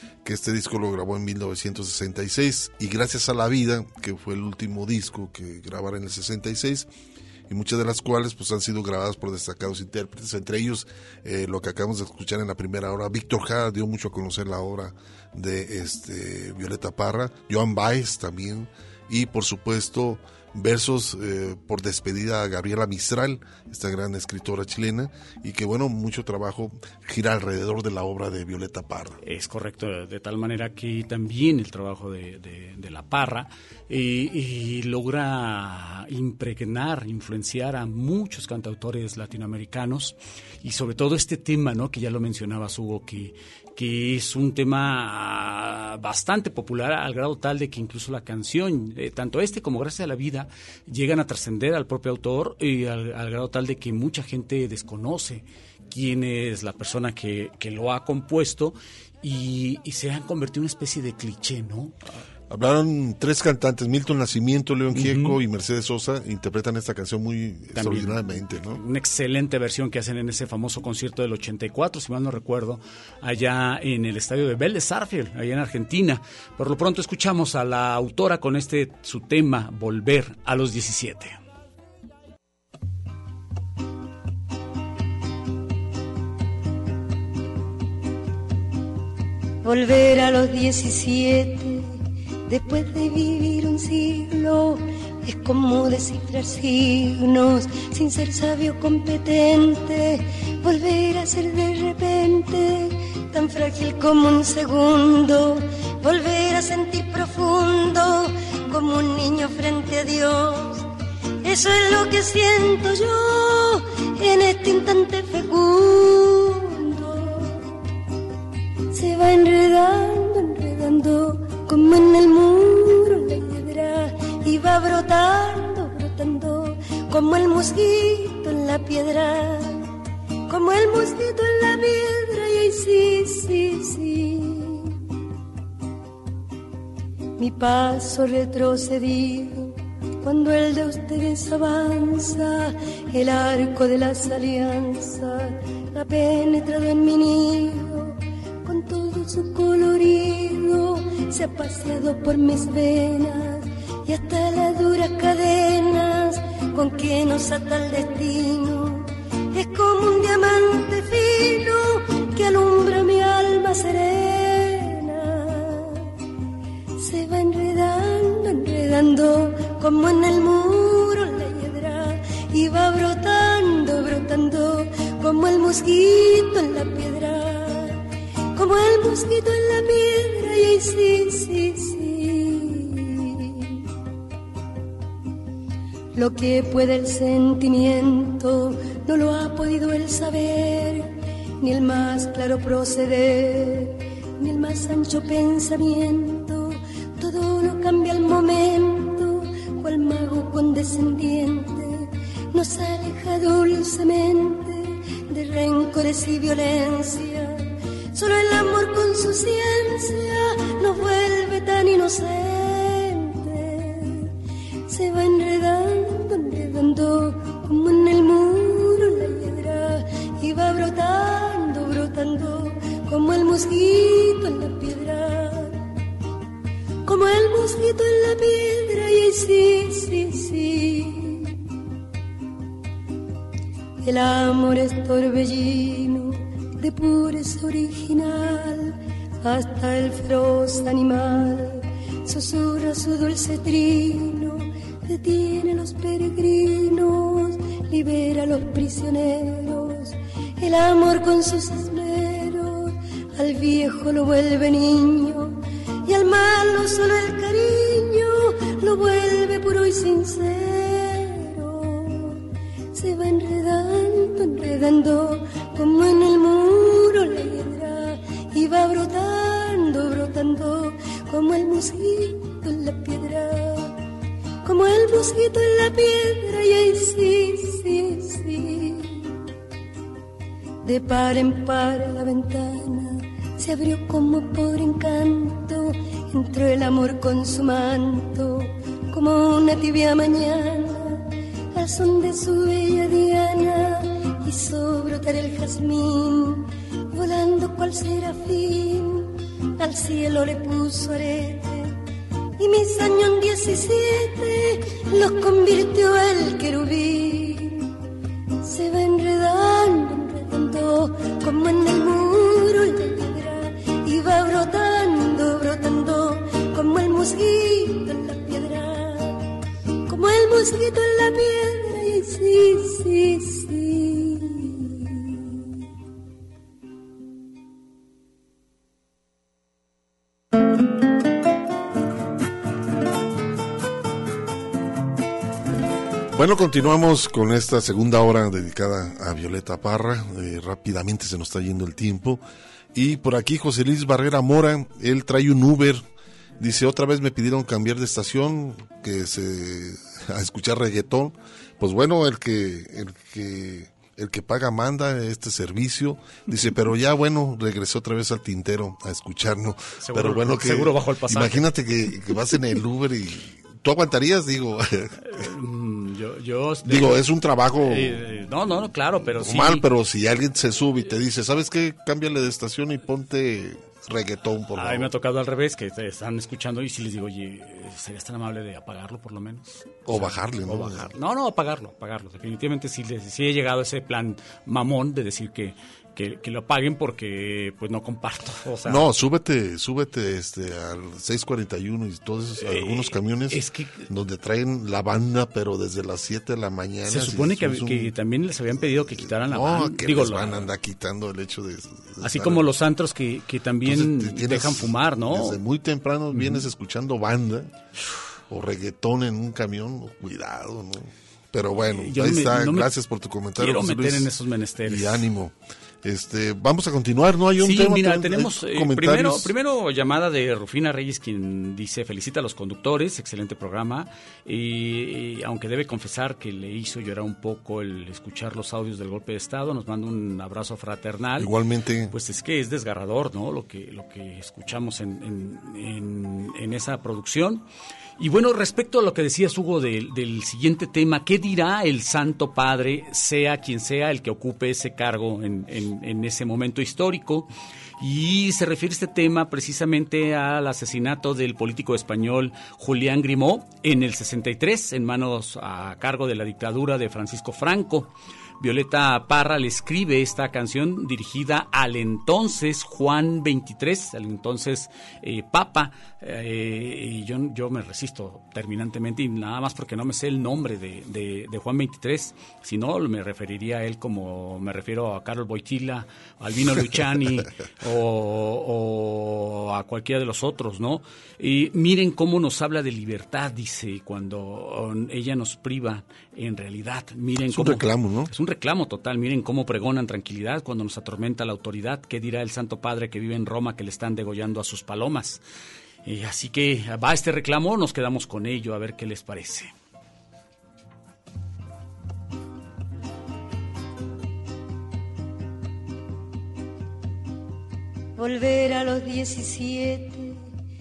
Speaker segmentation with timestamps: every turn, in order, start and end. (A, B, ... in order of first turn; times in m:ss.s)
0:00.2-0:06.9 A
0:07.5-0:29.2 A
0:29.2-1:01.9 B
1:02.5-1:08.8 A
1:04.9-1:05.4 B
1:07.7-1:21.4 B
1:29.6-1:50.9 C
1:51.4-1:57.7 C
1:58.9-2:09.9 C
2:10.5-2:14.9 C
2:17.4-2:46.1 C
2:47.0-2:58.0 C
2:58.5-3:03.8 C
3:06.1-3:34.3 C
3:34.9-3:45.8 C
3:47.0-3:51.6 C
3:54.0-4:22.4 C
4:22.9-4:33.9 C
4:34.6-4:39.3 C
4:40.8-5:02.0 C
5:02.6-5:07.9 C
5:08.6-5:19.4 C
5:20.1-5:25.4 C
5:36.3-5:42.4 A
5:42.9-5:46.0 A
5:46.6-6:05.2 A
6:00.0-6:01.7 B
6:05.2-6:07.2 B
6:06.8-6:08.2 A
6:07.7-6:09.8 B
6:09.3-6:15.1 A
6:14.8-6:29.0 B
6:20.0-6:21.1 A
6:28.8-6:38.1 A
6:32.6-6:34.1 B
6:37.1-6:40.7 B
6:38.8-6:42.7 A
6:42.2-6:45.6 B
6:43.8-6:47.7 A
6:46.3-6:46.6 B
6:48.5-6:54.3 A
6:51.9-6:52.9 B
6:53.6-6:55.2 B
6:54.8-6:59.5 A
6:57.6-7:11.5 B
7:11.4-7:12.1 A
7:12.1-7:17.6 B
7:18.2-8:15.4 B
8:07.5-8:08.3 A
8:16.0-8:19.7 B
8:28.2-8:30.5 C